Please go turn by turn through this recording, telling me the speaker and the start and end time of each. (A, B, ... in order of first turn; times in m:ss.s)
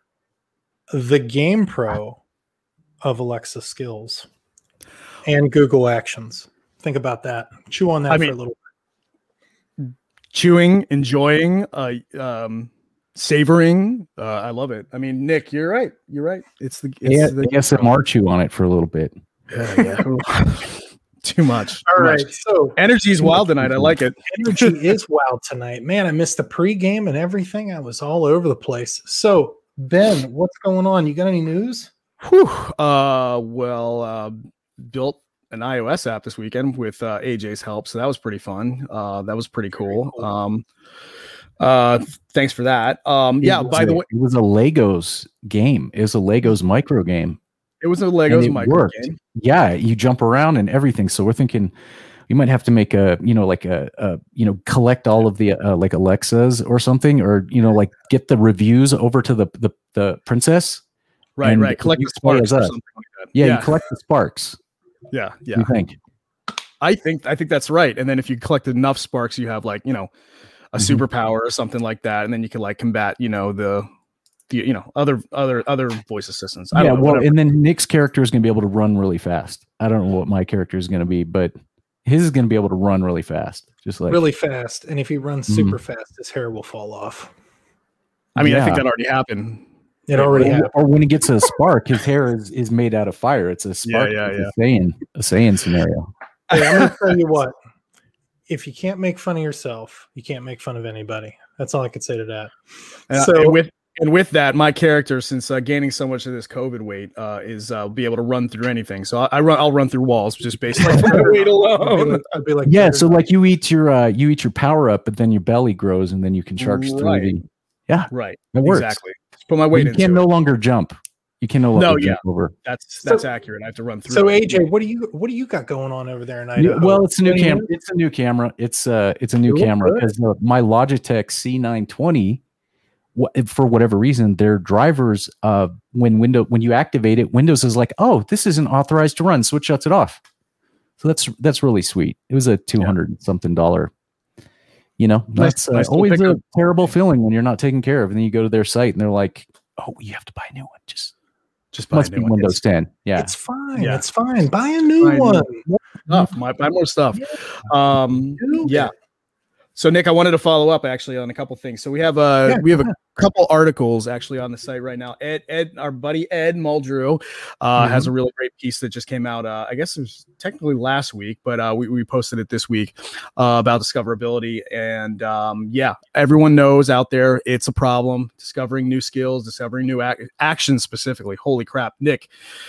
0:00.9-0:02.2 A
0:03.0-0:04.3 A
0:05.2-0:08.6 A
0:08.1-0:08.3 B
0:09.8-0:17.9 B
0:17.0-0:19.1 C
0:19.5-0:24.7 B
0:19.6-0:20.0 A
0:21.8-0:23.5 A
0:24.3-0:31.9 A
0:32.2-0:40.6 B
0:39.8-0:40.3 A
0:41.6-0:44.0 B
0:43.4-0:47.4 C
0:47.8-0:49.2 B
0:48.3-0:51.7 C
0:52.3-1:00.8 C
1:01.4-1:03.7 B
1:01.4-1:02.7 C
1:03.3-1:04.6 C
1:05.1-1:05.7 B
1:05.5-1:06.0 C
1:06.8-1:10.1 B
1:10.7-1:13.9 B
1:14.5-1:17.3 B
1:16.7-1:21.5 C
1:22.0-1:24.2 C
1:24.1-1:27.3 A
1:25.5-1:25.8 C
1:28.4-1:28.8 C
1:28.4-1:30.5 B
1:30.1-1:30.7 A
1:30.3-1:36.1 C
1:33.8-1:34.5 B
1:36.5-1:37.5 A
1:36.5-1:36.9 B
1:38.5-1:42.5 A
1:43.1-1:52.3 B
1:43.1-1:43.6 A
1:50.7-1:53.2 A
1:52.6-1:59.0 C
1:56.6-1:57.3 B
1:58.1-2:00.2 B
1:59.7-2:02.5 C
2:01.8-2:04.6 B
2:04.1-2:07.7 A
2:06.6-2:12.4 C
2:09.5-2:10.1 A
2:13.2-2:20.2 C
2:21.0-2:23.9 C
2:25.0-2:31.1 C
2:25.4-2:26.4 B
2:31.7-2:32.6 B
2:31.9-2:33.3 C
2:33.2-2:36.2 A
2:33.8-2:34.0 B
2:35.0-2:35.5 B
2:36.0-2:38.9 B
2:38.4-2:38.9 A
2:39.8-3:02.3 B
2:42.5-2:42.9 A
2:47.8-2:48.1 A